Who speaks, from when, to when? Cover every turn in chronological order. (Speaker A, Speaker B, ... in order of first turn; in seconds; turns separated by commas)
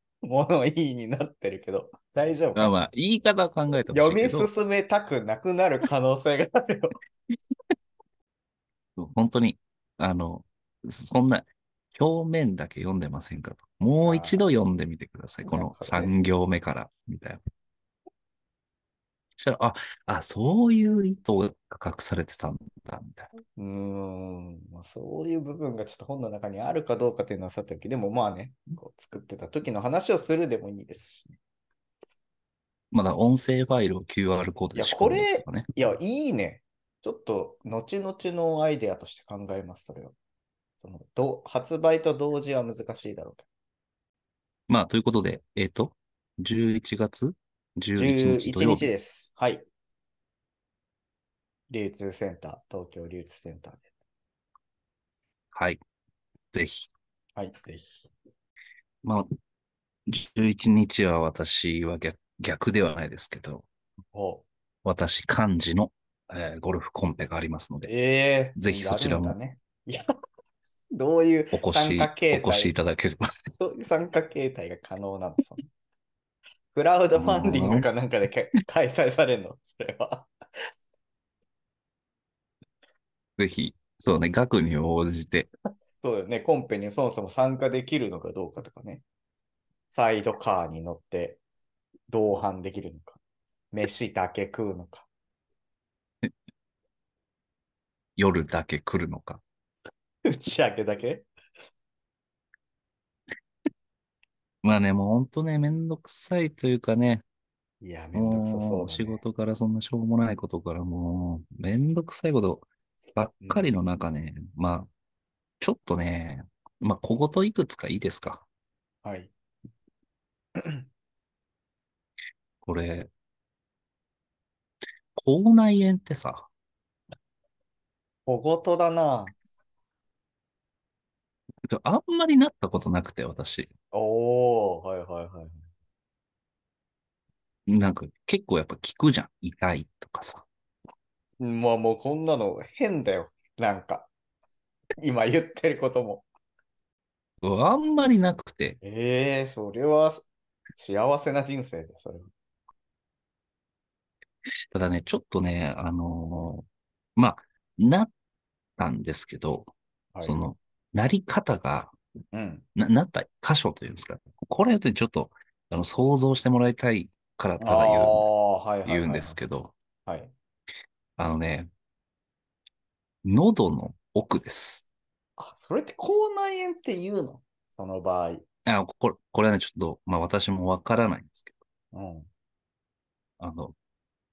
Speaker A: 0.2-2.8, Speaker B: 2.5-4.5, Speaker A: 3.9-7.0, Speaker B: 9.0-17.4, Speaker A: 14.0-14.4, Speaker A: 15.5-16.1, Speaker B: 19.4-23.3, Speaker A: 23.6-31.4, Speaker B: 32.9-35.7, Speaker A: 34.7-40.1, Speaker A: 40.8-43.5, Speaker B: 44.7-48.9, Speaker A: 47.9-49.6, Speaker A: 51.7-53.9, Speaker B: 55.5-55.8, Speaker B: 56.5-56.9, Speaker A: 57.4-58.1, Speaker B: 60.1-63.6, Speaker A: 64.1-64.5, Speaker B: 64.8-67.9, Speaker A: 67.8-70.1, Speaker B: 68.6-69.3, Speaker A: 70.9-72.8, Speaker B: 71.5-73.3, Speaker A: 73.6-75.6, Speaker A: 76.7-80.3, Speaker B: 77.2-77.9, Speaker B: 83.4-85.5, Speaker A: 86.0-89.0, Speaker A: 89.9-91.4, Speaker A: 92.1-93.2, Speaker A: 93.7-95.1, Speaker B: 98.2-99.4, Speaker A: 100.3-101.3, Speaker B: 104.6-107.2, Speaker A: 107.8-109.2, Speaker B: 108.1-114.9, Speaker A: 113.4-113.7, Speaker B: 115.6-118.4, Speaker A: 119.0-119.3, Speaker A: 120.5-120.8, Speaker B: 122.6-123.1, Speaker B: 125.1-126.5, Speaker A: 128.3-129.3, Speaker B: 131.6-133.7, Speaker A: 133.9-135.6, Speaker B: 137.7-140.4, Speaker A: 141.4-144.1, Speaker A: 145.0-146.2, Speaker B: 147.4-148.8, Speaker A: 148.8-152.3, Speaker B: 154.7-158.1, Speaker B: 158.8-159.7, Speaker A: 160.1-160.4, Speaker B: 160.2-161.9, Speaker A: 162.3-162.6, Speaker B: 162.8-168.3, Speaker A: 167.6-169.4, Speaker B: 168.8-169.7, Speaker A: 170.1-170.3, Speaker B: 171.2-171.7, Speaker B: 173.2-174.9, Speaker A: 175.4-178.4, Speaker B: 178.7-181.5, Speaker A: 181.9-182.3, Speaker B: 183.4-183.8